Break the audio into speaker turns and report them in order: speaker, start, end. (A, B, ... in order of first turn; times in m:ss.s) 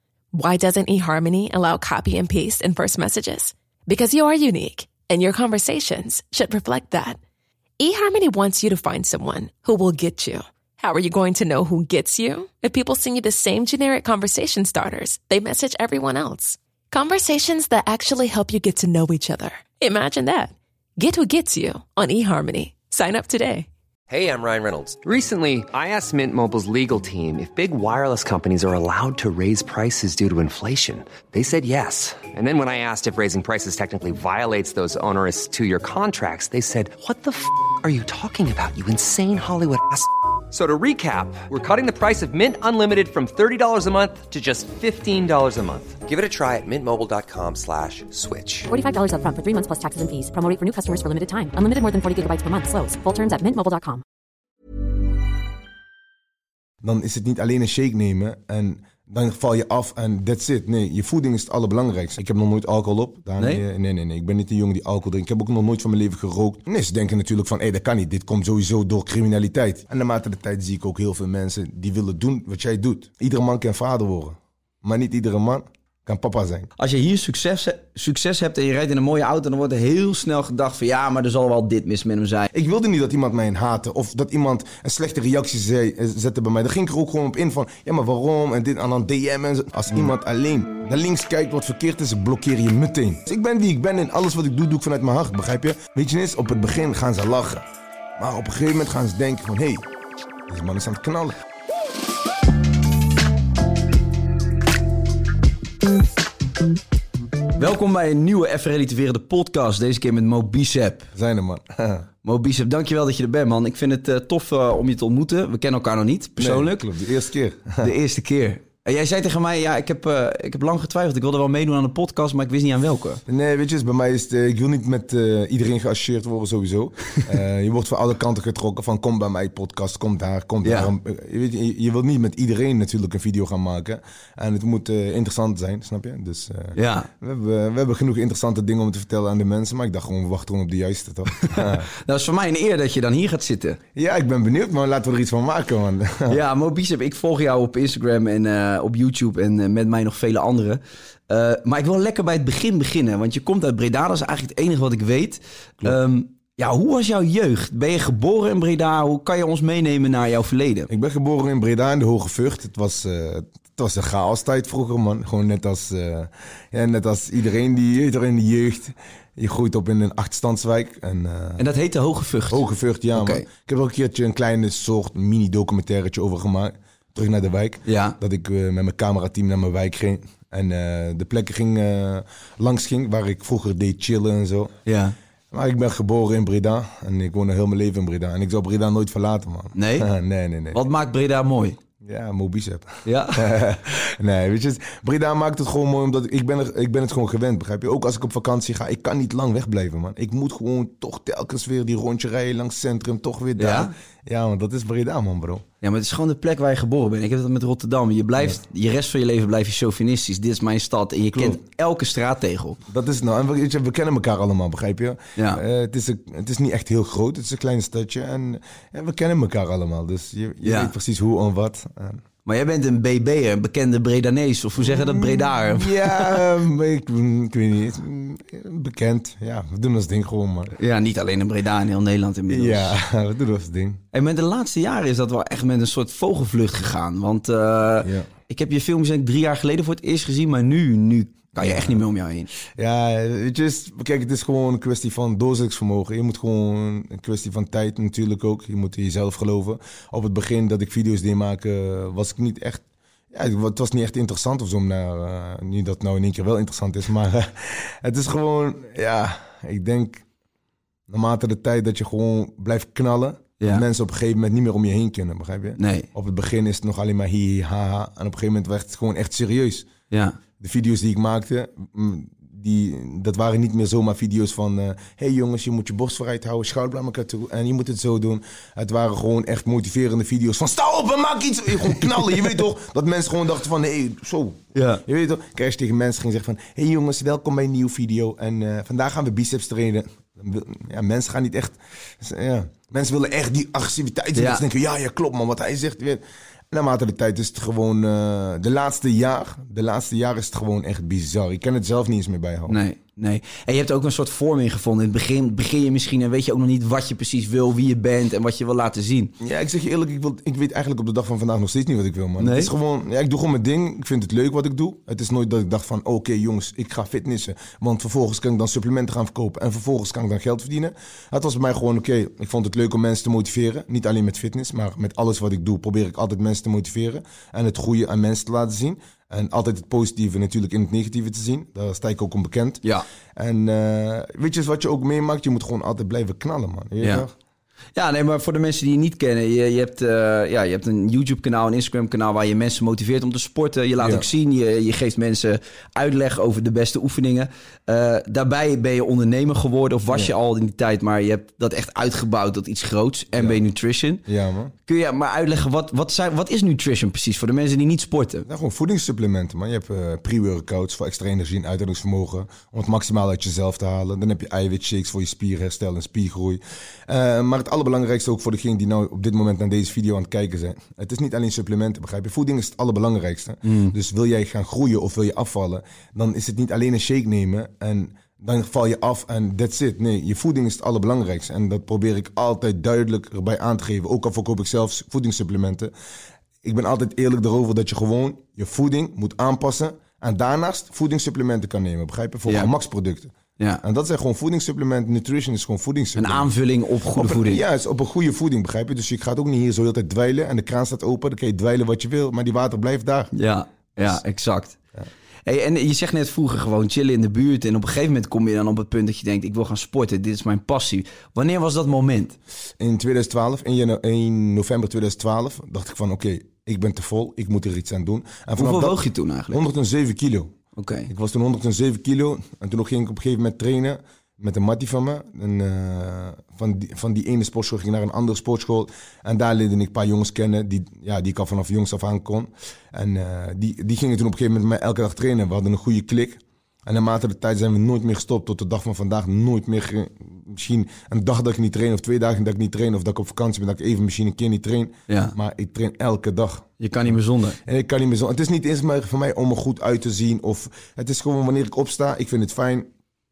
0:00.3-0:07.2 A
0:07.8-0:23.7 A
0:24.1-0:48.7 B
0:48.7-0:54.0 C
0:56.8-1:16.7 D
1:03.4-1:03.6 E
1:16.8-1:22.5 E
1:22.5-1:37.6 D
1:38.2-1:39.8 D
1:40.5-1:41.4 D
1:47.6-1:51.1 E
1:51.1-1:52.0 D
1:52.2-1:56.9 E
1:56.4-1:57.9 D
1:57.8-2:03.2 E
2:03.3-2:21.9 D
2:10.6-2:10.9 E
2:16.7-2:17.1 E
2:21.4-2:23.8 E
2:23.9-2:26.4 D
2:26.3-2:40.9 E
2:40.9-2:51.6 D
2:51.6-2:52.6 E
2:52.5-3:04.7 D
2:53.1-2:53.5 E
2:57.8-2:58.2 E
3:04.8-3:05.2 E
3:05.5-3:10.8 D
3:09.7-3:10.1 E
3:10.7-3:11.8 E
3:12.0-3:25.6 D
3:13.0-3:13.4 E
3:23.6-3:23.9 E
3:25.8-3:32.8 E
3:31.3-3:31.6 D
3:32.9-3:42.2 D
3:35.4-3:35.6 E
3:40.6-3:40.9 E
3:42.4-3:46.4 E
3:44.8-3:50.7 D
3:50.8-3:52.9 E
3:52.5-3:54.0 D
3:54.1-4:02.5 E
3:58.0-3:58.3 D
4:01.6-4:02.0 D
4:02.7-4:20.2 D
4:21.1-4:29.9 D
4:25.8-4:26.1 E
4:30.1-4:30.4 E
4:30.6-5:02.8 D
4:44.7-4:45.0 E
4:54.3-4:54.6 E
5:02.7-5:09.3 E
5:09.4-5:32.8 D
5:12.4-5:12.7 E
5:33.4-5:37.3 D
5:37.0-5:37.2 E
5:38.0-5:54.2 E
5:44.0-5:44.2 D
5:53.3-5:53.6 D
5:54.2-5:54.7 D
5:54.8-5:58.4 E
5:58.4-6:25.9 D
6:13.6-6:13.9 E
6:26.6-6:36.5 D
6:32.5-6:32.7 E
6:36.2-6:37.6 E
6:37.1-6:43.3 D
6:43.3-6:44.8 E
6:45.4-6:52.4 E
6:52.8-7:00.5 D
6:58.6-6:59.6 E
7:00.8-7:01.1 E
7:01.1-7:26.7 D
7:25.1-7:25.3 E
7:26.8-7:27.6 E
7:27.6-7:32.9 D